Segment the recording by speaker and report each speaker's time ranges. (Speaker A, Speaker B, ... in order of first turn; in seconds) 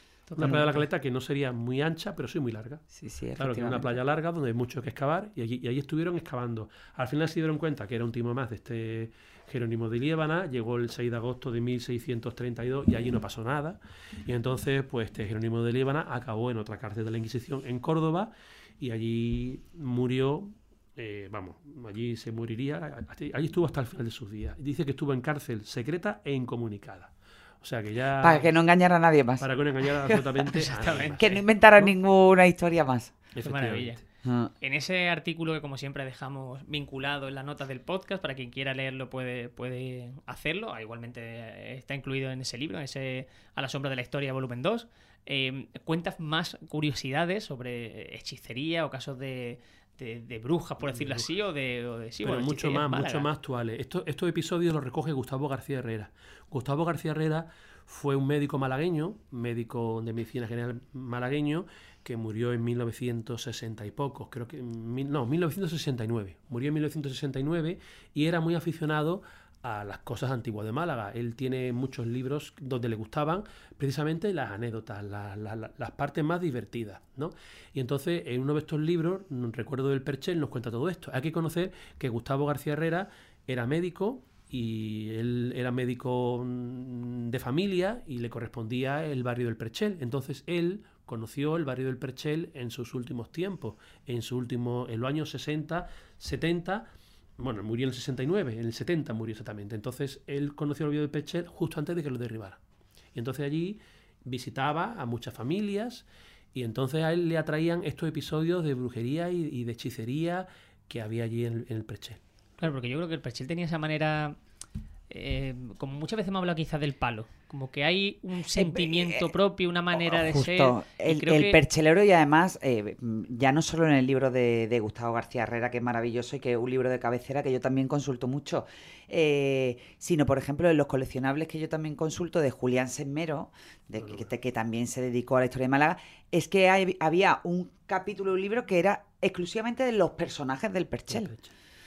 Speaker A: 0.3-0.8, 30.4-31.4, 33.4-34.0, 34.6-53.3, 112.6-114.4, 115.1-121.6
Speaker B: 0.3-2.8, 3.4-28.5, 29.4-31.9, 33.3-34.0, 50.8-51.3, 52.2-96.9, 97.4-102.6, 103.1-112.2, 134.0-134.3, 141.1-141.5
Speaker C: 0.4-0.7, 2.9-3.9, 28.2-29.4, 31.2-33.1, 34.2-34.5, 118.5-119.3, 119.9-141.3